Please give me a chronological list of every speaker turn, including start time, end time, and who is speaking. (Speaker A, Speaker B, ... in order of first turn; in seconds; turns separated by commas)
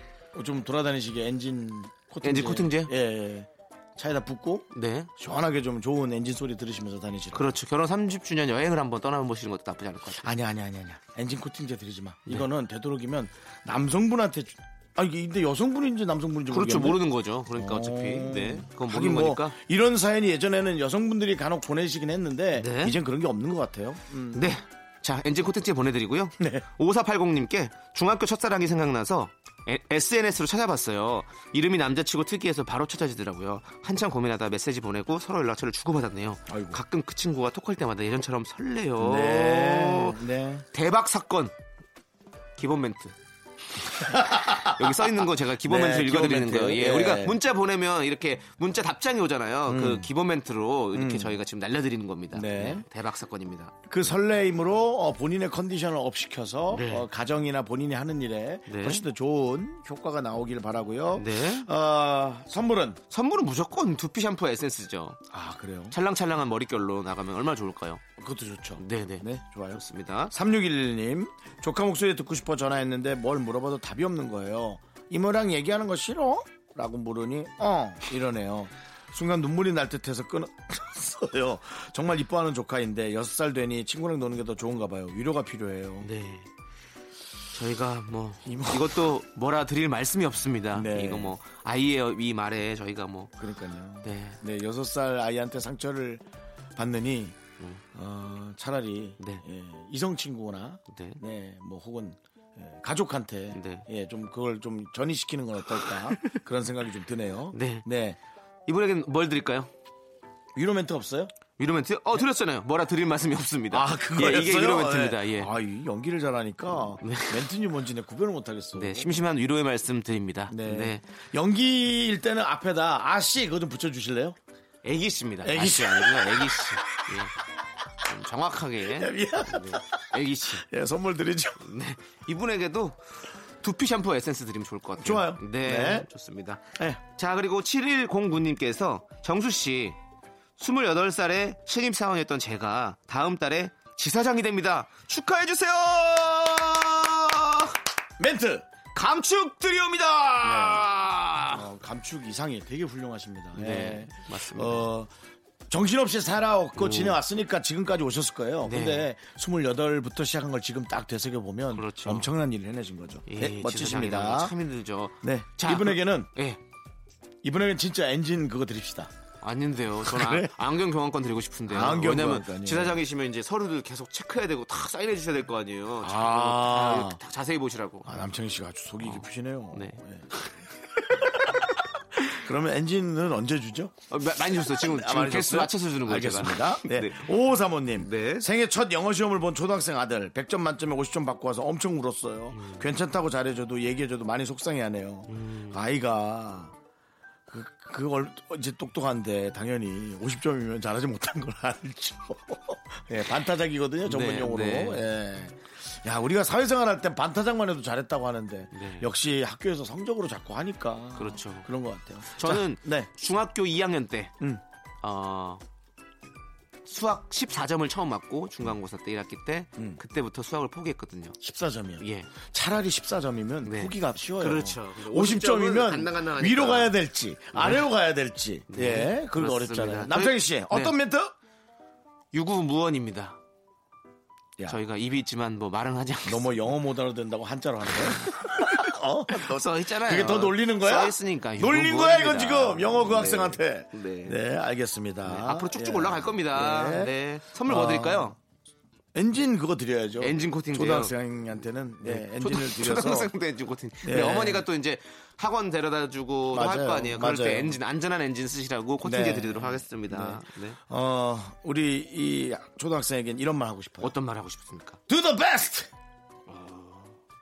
Speaker A: 0.3-7.5, Speaker B: 2.2-2.9, Speaker B: 4.7-5.1, Speaker B: 7.3-10.3, Speaker A: 10.2-17.0, Speaker B: 16.5-19.6, Speaker A: 17.5-24.5, Speaker B: 22.6-23.0, Speaker B: 24.3-40.2, Speaker A: 26.4-26.6, Speaker A: 36.5-36.8, Speaker A: 39.0-40.6, Speaker B: 40.7-41.5, Speaker B: 42.6-43.1, Speaker B: 44.0-53.8, Speaker A: 44.0-47.4, Speaker A: 49.7-50.1, Speaker A: 50.9-51.4, Speaker A: 52.3-52.9, Speaker A: 53.9-63.0, Speaker B: 56.7-57.1, Speaker B: 58.7-59.0, Speaker B: 61.1-61.7, Speaker B: 63.1-65.2, Speaker A: 65.3-66.0, Speaker B: 65.9-68.0, Speaker A: 68.2-86.1, Speaker B: 68.8-70.3, Speaker B: 86.0-86.5, Speaker B: 87.5-93.3, Speaker A: 88.5-89.1, Speaker A: 90.7-91.3, Speaker A: 93.4-96.2, Speaker B: 94.0-94.4, Speaker A: 96.8-97.4, Speaker A: 97.9-108.2, Speaker B: 100.9-101.2, Speaker B: 103.5-103.9, Speaker B: 105.9-106.4, Speaker B: 107.5-107.9, Speaker B: 108.7-109.7, Speaker A: 110.5-111.3, Speaker B: 111.6-115.5, Speaker A: 113.7-119.2, Speaker B: 117.0-117.5, Speaker B: 118.8-121.0, Speaker A: 120.5-124.4, Speaker B: 124.8-127.3, Speaker A: 125.4-127.1, Speaker B: 128.0-130.7, Speaker A: 128.9-131.7, Speaker B: 131.6-133.0, Speaker B: 133.6-140.0, Speaker A: 135.0-136.1, Speaker B: 140.6-147.7, Speaker A: 148.2-148.7, Speaker B: 148.9-151.6, Speaker A: 150.4-150.9, Speaker A: 151.5-155.1, Speaker B: 153.5-154.9, Speaker A: 155.7-164.5, Speaker B: 156.8-157.2, Speaker B: 158.7-159.1, Speaker B: 161.7-162.3, Speaker B: 163.3-166.6, Speaker A: 165.2-166.3, Speaker A: 167.4-169.1, Speaker B: 169.4-178.2, Speaker A: 170.0-170.5, Speaker A: 171.7-173.0, Speaker A: 176.0-177.2, Speaker A: 178.1-180.3, Speaker B: 179.0-180.6, Speaker A: 181.2-196.7, Speaker B: 184.1-187.3, Speaker B: 188.0-188.5, Speaker B: 192.5-192.9, Speaker B: 195.3-195.8, Speaker A: 197.5-213.1, Speaker B: 204.1-205.0, Speaker B: 208.7-209.1, Speaker B: 211.2-211.7, Speaker B: 212.3-214.3, Speaker B: 215.0-215.6, Speaker B: 216.9-221.4, Speaker A: 221.4-231.3, Speaker B: 222.0-222.3, Speaker B: 223.6-226.9, Speaker B: 227.6-227.8, Speaker B: 228.7-230.9, Speaker B: 232.3-233.4, Speaker B: 234.7-236.5, Speaker A: 236.2-247.1, Speaker B: 238.2-244.4, Speaker B: 245.3-248.4, Speaker A: 247.7-248.4, Speaker A: 249.2-253.3, Speaker B: 250.2-251.2, Speaker B: 252.0-260.8, Speaker A: 254.0-254.6, Speaker A: 256.5-257.8, Speaker A: 259.0-264.1, Speaker B: 264.0-265.0, Speaker A: 265.1-265.9, Speaker B: 266.5-267.1